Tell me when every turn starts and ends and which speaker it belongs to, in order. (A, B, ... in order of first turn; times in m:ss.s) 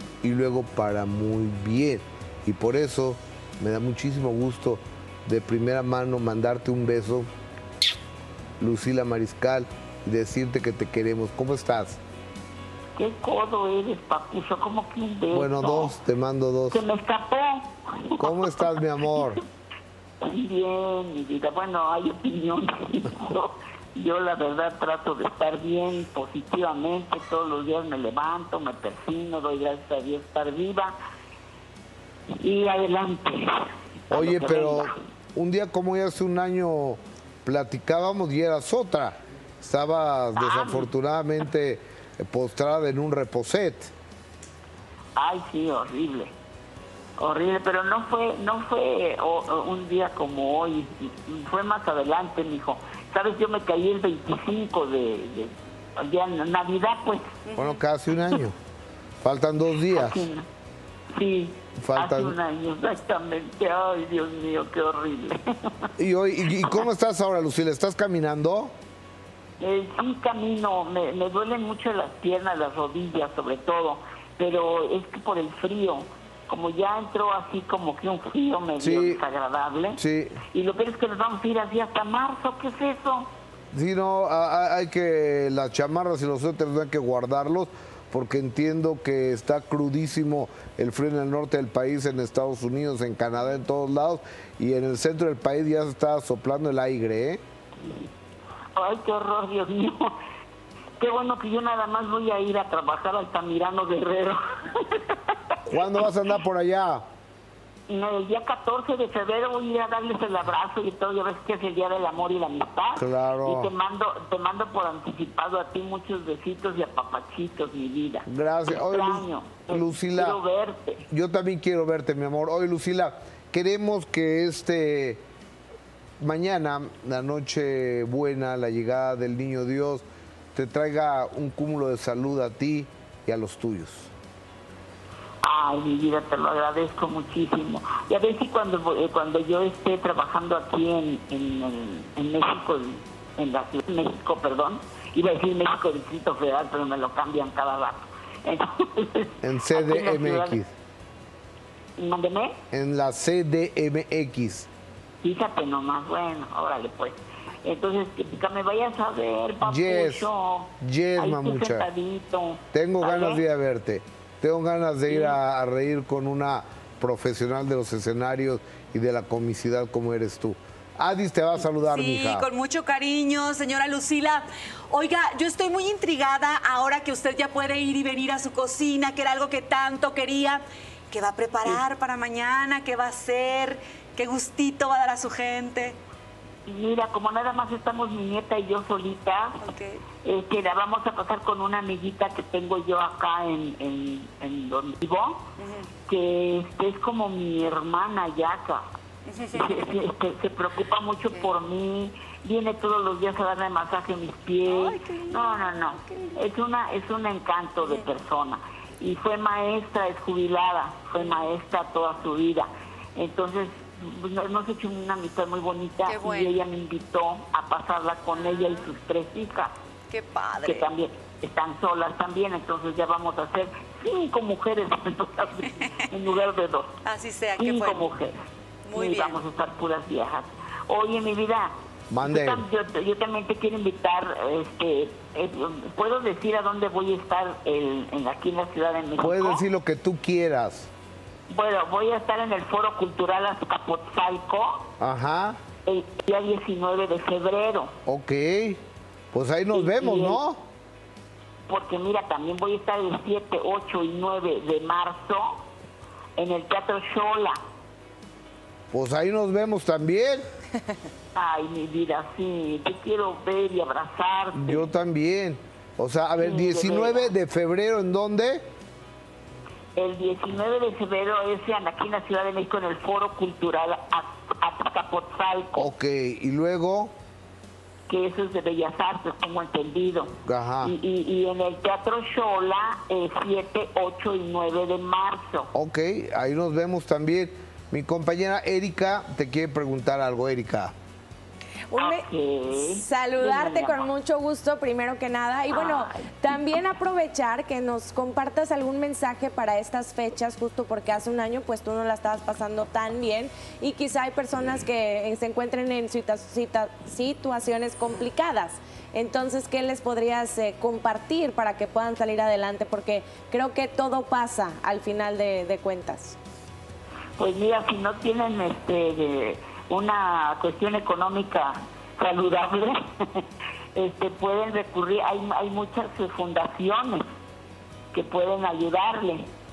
0:00.2-0:07.3 A
0:08.6-0:12.0 A
0:13.0-0:16.0 B
0:15.3-0:16.8 A
0:16.7-0:19.4 B
0:18.2-0:19.4 A
0:20.2-0:31.0 B
0:32.4-0:33.5 B
0:34.1-0:35.0 B
0:34.1-0:43.9 A
0:40.3-0:40.9 B
0:45.2-0:46.3 B
0:47.2-0:57.4 B
0:57.5-0:57.8 C
0:57.6-0:58.5 A
0:59.2-1:00.3 A
0:59.9-1:00.4 B
1:01.1-1:05.9 B
1:01.8-1:02.4 A
1:06.0-1:08.7 A
1:09.6-1:23.3 B
1:18.8-1:19.2 A
1:20.0-1:20.4 A
1:23.7-1:37.4 A
1:38.8-1:40.1 B
1:41.0-1:45.4 B
1:45.7-1:47.0 A
1:47.9-2:01.0 B
1:53.0-1:53.7 A
1:58.2-2:00.4 A
2:01.1-2:05.2 A
2:06.2-2:14.1 A
2:15.4-2:30.6 B
2:29.4-2:30.7 A
2:32.0-2:32.6 B
2:32.7-2:34.7 A
2:35.2-2:43.4 B
2:39.6-2:40.3 A
2:40.8-2:41.9 A
2:42.7-2:52.5 A
2:45.1-2:45.4 B
2:51.7-3:06.0 C
3:06.7-3:09.6 B
3:09.6-3:10.0 C
3:10.2-3:15.5 B
3:15.6-3:15.9 C
3:16.1-3:18.8 B
3:19.2-3:19.9 C
3:19.5-3:39.7 B
3:24.7-3:26.4 C
3:31.2-3:31.5 C
3:36.0-3:36.6 C
3:38.3-3:38.9 C
3:40.1-3:40.9 C
3:40.6-3:47.0 B
3:47.0-3:48.1 C
3:47.6-3:48.3 B
3:48.8-3:49.4 C
3:48.9-3:51.7 B
3:52.1-3:52.6 A
3:52.2-3:59.6 B
3:59.2-4:00.9 A
4:01.5-4:04.9 B
4:05.0-4:05.6 A
4:05.9-4:07.9 B
4:08.1-4:08.8 A
4:09.3-4:10.6 A
4:09.7-4:10.4 B
4:11.7-4:15.6 B
4:16.4-4:17.6 B
4:18.9-4:20.4 A
4:21.4-4:24.9 B
4:24.5-4:28.6 A
4:26.4-4:27.3 B
4:30.0-4:35.9 B
4:35.8-4:37.1 A
4:38.1-4:45.7 B
4:40.4-4:40.9 A
4:45.7-4:50.9 A
4:51.9-5:16.4 D
4:52.0-4:54.1 B
4:55.7-4:56.5 B
5:17.4-5:23.4 B
5:23.9-5:27.2 B
5:28.1-5:29.4 B